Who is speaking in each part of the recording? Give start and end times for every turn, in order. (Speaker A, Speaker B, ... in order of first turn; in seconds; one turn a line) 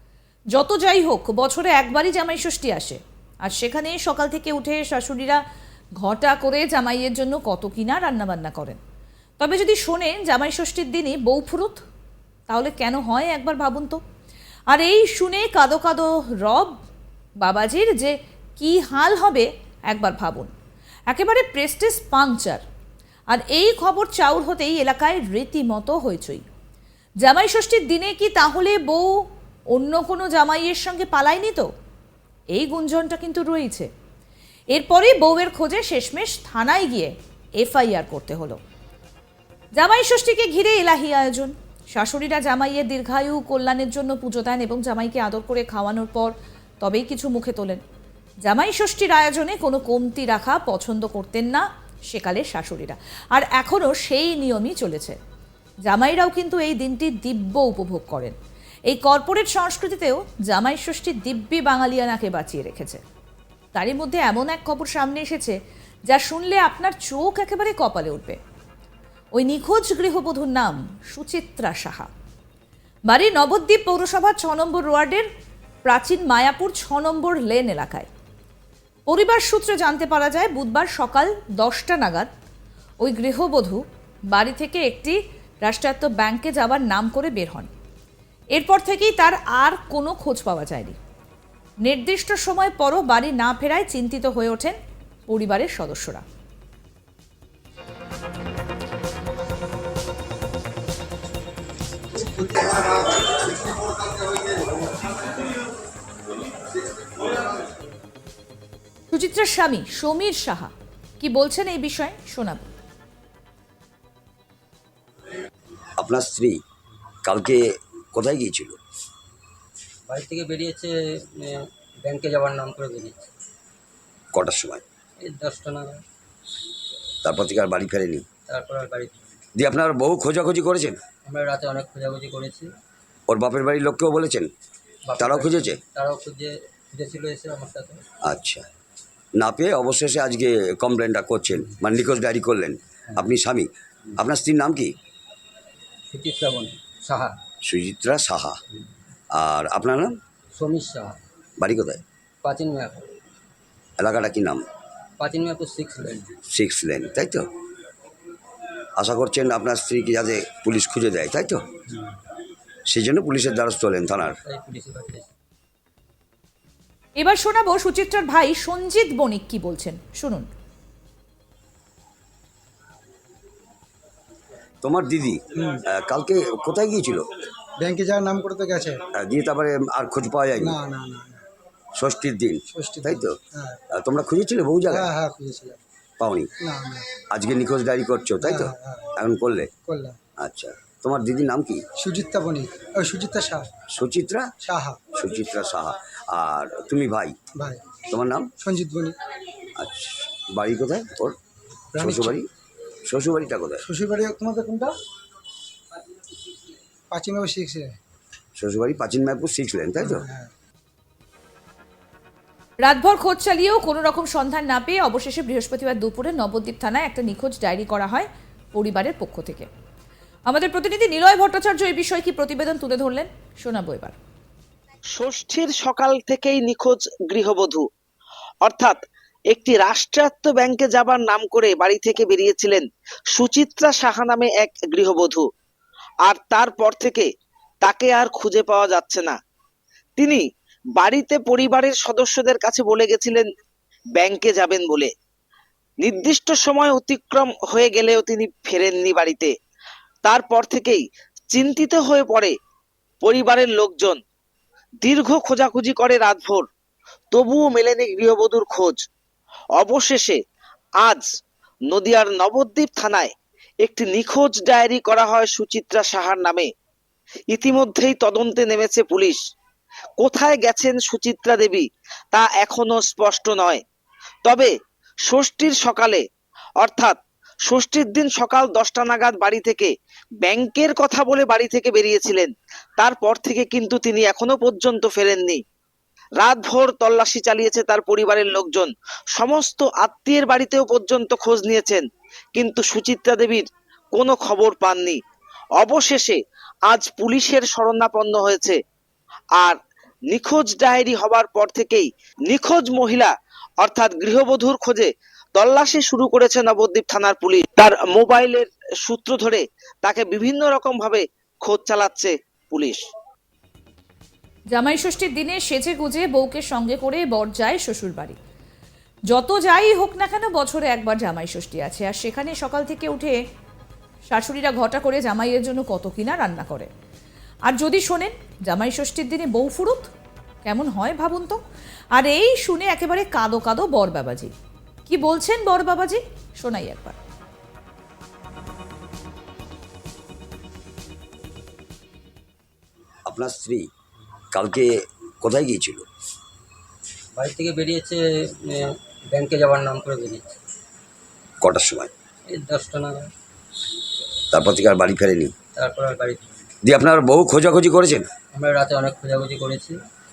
Speaker A: 0.5-5.4
Speaker A: 6.0-8.8
Speaker A: 9.4-11.8
Speaker A: 12.5-14.0
Speaker A: 14.7-16.7
Speaker A: 17.4-20.5
Speaker A: 21.1-22.6
Speaker A: 23.3-26.4
Speaker A: 27.2-29.2
Speaker A: 29.7-31.7
Speaker A: 32.5-33.9
Speaker A: 34.7-38.6
Speaker A: 39.8-47.8
Speaker A: 48.5-55.2
Speaker A: 55.9-58.4
Speaker A: 58.9-63.0
Speaker A: 63.7-65.6
Speaker A: 66.1-68.4
Speaker A: 69.3-72.1
Speaker A: 73.1-75.3
Speaker A: 75.8-78.1
Speaker A: 79.1-82.3
Speaker A: 83.0-87.7
Speaker A: 88.5-91.0
Speaker A: 91.8-96.2
Speaker B: 102.6-102.8
Speaker A: 109.1-112.7
Speaker C: 116.0-116.6
Speaker C: 117.2-117.6
Speaker C: 118.1-118.8
Speaker D: 120.1-123.3
Speaker C: 124.3-124.8
Speaker D: 125.2-126.0
Speaker C: 127.2-128.2
Speaker D: 128.5-129.4
Speaker C: 129.6-131.0
Speaker D: 131.2-132.7
Speaker C: 133.3-134.5
Speaker D: 135.1-138.0
Speaker C: 135.2-135.8
Speaker C: 138.2-138.7
Speaker C: 139.4-145.0
Speaker D: 146.1-147.4
Speaker C: 147.6-148.6
Speaker C: 149.3-150.2
Speaker D: 150.5-151.2
Speaker C: 151.6-152.0
Speaker D: 152.4-153.1
Speaker C: 154.0-154.6
Speaker D: 155.2-156.4
Speaker C: 156.5-157.5
Speaker C: 159.0-161.6
Speaker C: 162.9-164.4
Speaker D: 164.4-165.3
Speaker A: 167.2-170.5
Speaker C: 174.8-177.2
Speaker B: 175.6-175.8
Speaker B: 177.8-179.0
Speaker C: 179.1-180.8
Speaker B: 180.6-181.4
Speaker C: 182.0-183.3
Speaker B: 182.7-183.8
Speaker C: 183.9-185.1
Speaker B: 184.9-185.8
Speaker C: 186.2-186.5
Speaker B: 186.6-187.1
Speaker C: 187.3-189.7
Speaker B: 188.4-189.1
Speaker B: 189.9-190.2
Speaker C: 190.4-191.8
Speaker B: 192.0-193.7
Speaker C: 193.9-194.5
Speaker B: 194.6-195.0
Speaker C: 195.1-197.4
Speaker B: 197.6-197.8
Speaker C: 198.1-198.5
Speaker B: 198.6-199.2
Speaker C: 199.8-201.4
Speaker B: 201.9-202.4
Speaker C: 202.0-202.5
Speaker C: 203.1-203.8
Speaker B: 203.8-204.9
Speaker B: 207.1-207.9
Speaker C: 208.6-210.3
Speaker B: 210.0-210.5
Speaker A: 212.8-219.7
Speaker A: 220.5-224.2
Speaker E: 225.2-227.9
Speaker E: 228.6-229.0
Speaker E: 229.5-235.5
Speaker E: 236.3-237.3
Speaker E: 237.8-239.4
Speaker E: 240.2-243.5
Speaker E: 244.2-245.1
Speaker E: 246.0-249.5
Speaker E: 250.2-252.6
Speaker E: 253.2-254.2
Speaker E: 255.0-256.7
Speaker E: 257.3-259.0
Speaker E: 259.8-260.4
Speaker E: 261.0-261.3
Speaker E: 261.9-263.3
Speaker E: 263.8-266.7
Speaker E: 267.5-269.4
Speaker E: 270.2-273.8
Speaker E: 274.4-274.8
Speaker E: 275.3-276.2
Speaker E: 276.8-285.6
Speaker E: 286.4-295.2
Speaker E: 295.8-298.8
Speaker E: 299.6-313.1
Speaker A: 314.7-318.4
Speaker A: 319.3-323.4
Speaker A: 324.3-326.9
Speaker A: 327.7-330.1
Speaker A: 330.6-331.6
Speaker A: 332.1-334.5
Speaker A: 335.1-337.2
Speaker C: 343.3-343.9
Speaker C: 344.5-344.9
Speaker C: 345.4-346.1
Speaker D: 347.4-350.6
Speaker C: 351.6-352.1
Speaker D: 352.5-353.3
Speaker C: 354.5-355.5
Speaker D: 355.8-356.6
Speaker C: 356.8-358.3
Speaker D: 358.5-360.0